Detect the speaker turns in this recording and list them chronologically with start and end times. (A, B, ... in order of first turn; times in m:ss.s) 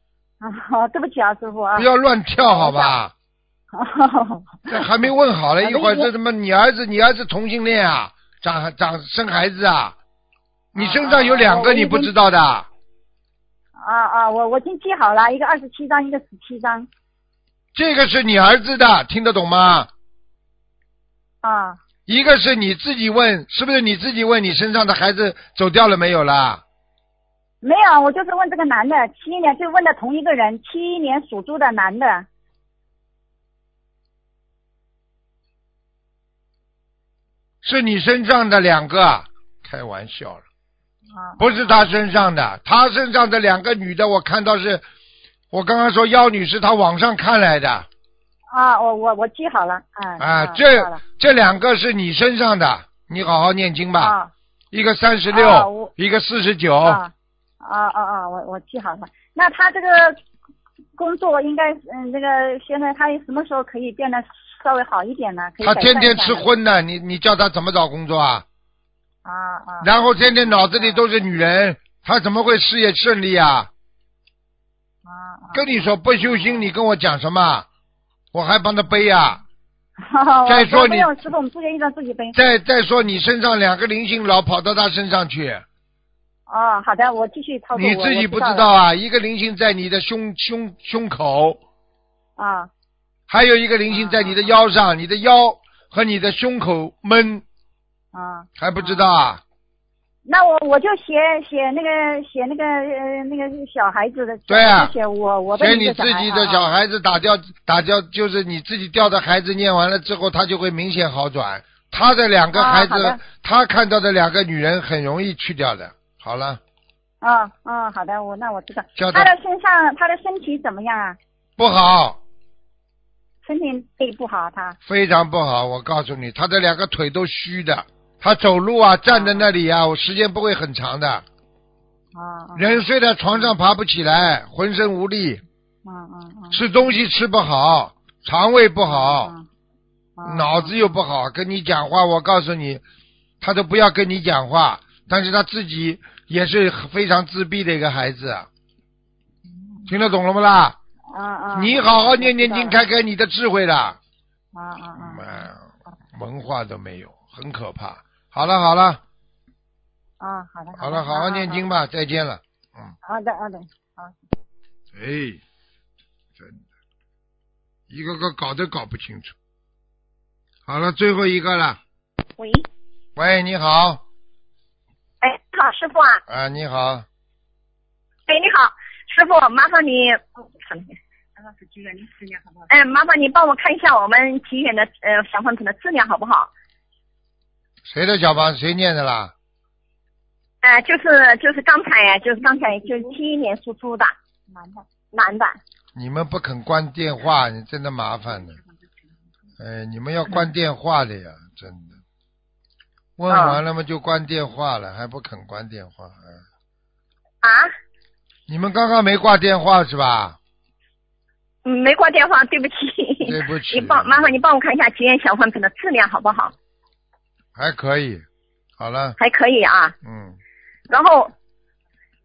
0:00.4-0:02.9 A
0:01.8-0:03.1 B
0:03.7-0:04.8 A
0:04.7-0:10.0 B
0:05.6-0:06.1 A
0:10.7-0:12.7 B
0:10.8-0:12.1 A
0:13.8-0:16.9 A
0:17.7-0:19.9 B
0:21.4-0:21.8 A
0:22.1-0:26.6 B
0:27.6-0:32.2 A
0:37.6-0:40.4 B
0:41.1-0:41.8 A
0:41.4-0:44.8 B
0:45.5-0:47.9 B
0:48.5-0:51.0 A
0:50.2-0:54.1 B
0:54.0-0:54.3 A
0:54.7-0:57.0 B
0:55.3-0:55.9 A
0:56.8-1:00.2 A
1:01.0-1:06.4 A
1:05.6-1:08.4 B
1:09.2-1:11.0 A
1:09.8-1:13.7 B
1:15.0-1:16.7 A
1:15.5-1:17.6 B
1:18.3-1:19.4 B
1:20.1-1:22.3 A
1:20.4-1:21.2 B
1:22.3-1:25.6 B
1:26.5-1:28.7 A
1:27.7-1:31.6 B
1:32.4-1:32.7 A
1:33.3-1:37.4 B
1:33.9-1:34.5 A
1:38.1-1:39.1 A
1:38.6-1:39.4 B
1:40.2-1:46.6 A
1:44.5-1:44.9 B
1:45.5-1:56.6 B
1:52.5-1:53.2 A
1:57.2-2:01.2 A
1:59.0-1:59.3 B
2:01.6-2:02.2 B
2:03.4-2:04.8 A
2:04.8-2:11.2 B
2:09.1-2:09.4 A
2:12.1-2:12.8 A
2:12.6-2:15.4 B
2:15.8-2:16.6 A
2:16.5-2:19.3 B
2:18.9-2:19.4 A
2:20.2-2:20.7 A
2:20.2-2:22.8 B
2:23.4-2:28.5 B
2:29.9-2:30.8 B
2:31.1-2:32.8 A
2:31.5-2:34.0 B
2:34.5-2:35.4 A
2:35.0-2:35.6 B
2:36.1-2:39.0 B
2:40.2-2:41.6 A
2:40.8-2:42.9 B
2:43.0-2:44.2 A
2:44.9-2:45.4 B
2:47.9-2:49.3 B
2:50.7-2:51.8 B
2:52.4-2:52.6 C
2:53.2-2:54.0 B
2:55.2-2:56.2 C
2:56.3-2:57.0 B
2:58.3-3:00.9 C
3:01.5-3:02.4 A
3:02.7-3:06.5 C
3:07.8-3:09.3 B
3:10.6-3:14.1 C
3:15.1-3:15.6 C
3:15.9-3:18.6 B
3:19.6-3:21.9 B
3:23.2-3:26.4 B
3:23.3-3:23.6 C
3:27.4-3:27.7 C
3:28.5-3:30.4 B
3:31.6-3:36.5 C
3:33.2-3:34.4 B
3:37.6-3:38.2 B
3:38.8-3:39.2 B
3:39.2-3:39.9 C
3:40.0-3:40.4 B
3:40.9-3:41.3 C